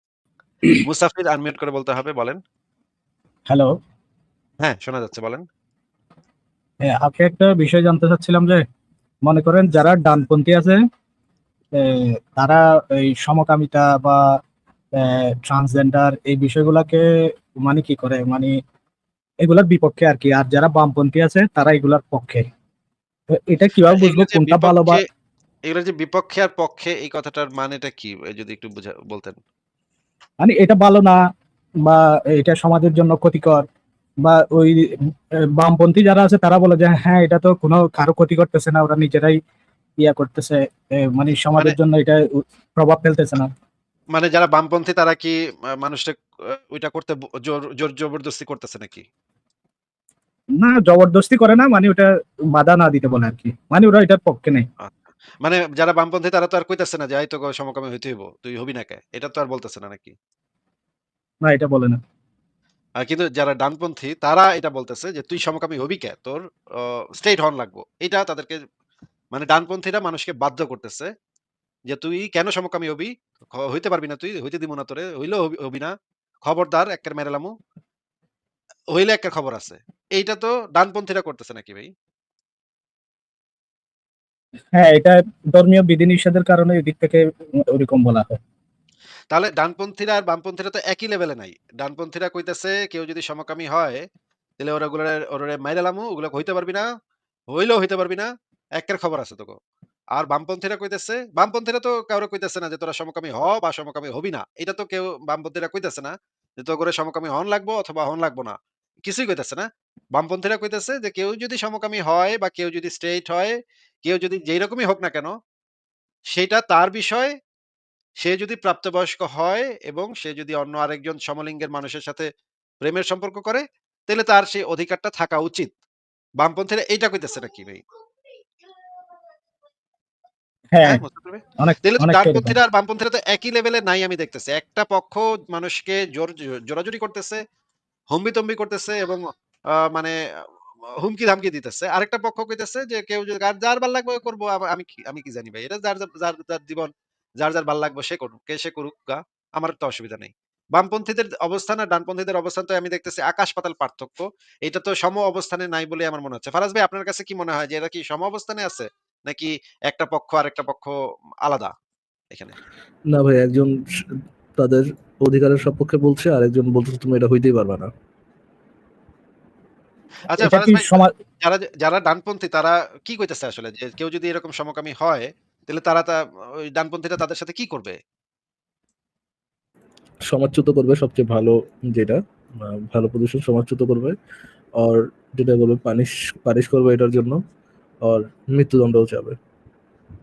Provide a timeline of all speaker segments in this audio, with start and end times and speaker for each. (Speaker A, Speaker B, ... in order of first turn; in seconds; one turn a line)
Speaker A: 0.8-2.4
Speaker A: 4.6-5.4
Speaker B: 6.9-8.6
Speaker B: 9.3-10.8
Speaker B: 11.8-14.2
Speaker B: 15.0-17.0
Speaker B: 17.6-18.5
Speaker B: 19.4-22.5
Speaker B: 23.4-25.0
Speaker A: 23.9-25.0
Speaker A: 25.7-29.4
Speaker B: 30.4-31.2
Speaker B: 31.9-33.6
Speaker B: 34.2-34.8
Speaker B: 35.6-39.4
Speaker B: 40.0-40.6
Speaker B: 41.1-42.2
Speaker B: 42.8-43.5
Speaker A: 44.1-49.0
Speaker B: 50.6-54.7
Speaker A: 54.8-60.1
Speaker B: 61.5-62.0
Speaker A: 63.0-68.6
Speaker A: 69.3-71.1
Speaker A: 71.9-75.9
Speaker A: 76.5-77.5
Speaker A: 78.9-81.9
Speaker B: 84.8-88.3
Speaker A: 89.3-94.0
Speaker A: 94.6-96.9
Speaker A: 97.5-99.6
Speaker A: 100.2-115.3
Speaker A: 116.3-117.3
Speaker A: 118.2-122.3
Speaker A: 122.8-125.7
Speaker A: 126.4-127.8
Speaker B: 130.7-131.0
Speaker A: 130.8-137.4
Speaker B: 131.6-132.6
Speaker A: 138.1-139.2
Speaker A: 139.8-140.2
Speaker A: 141.0-146.9
Speaker A: 147.4-160.9
Speaker A: 161.4-161.7
Speaker C: 163.1-167.9
Speaker A: 170.3-176.2
Speaker B: 170.4-171.1
Speaker A: 176.7-178.0
Speaker C: 180.3-184.2
Speaker C: 184.8-187.4
Speaker C: 188.1-189.3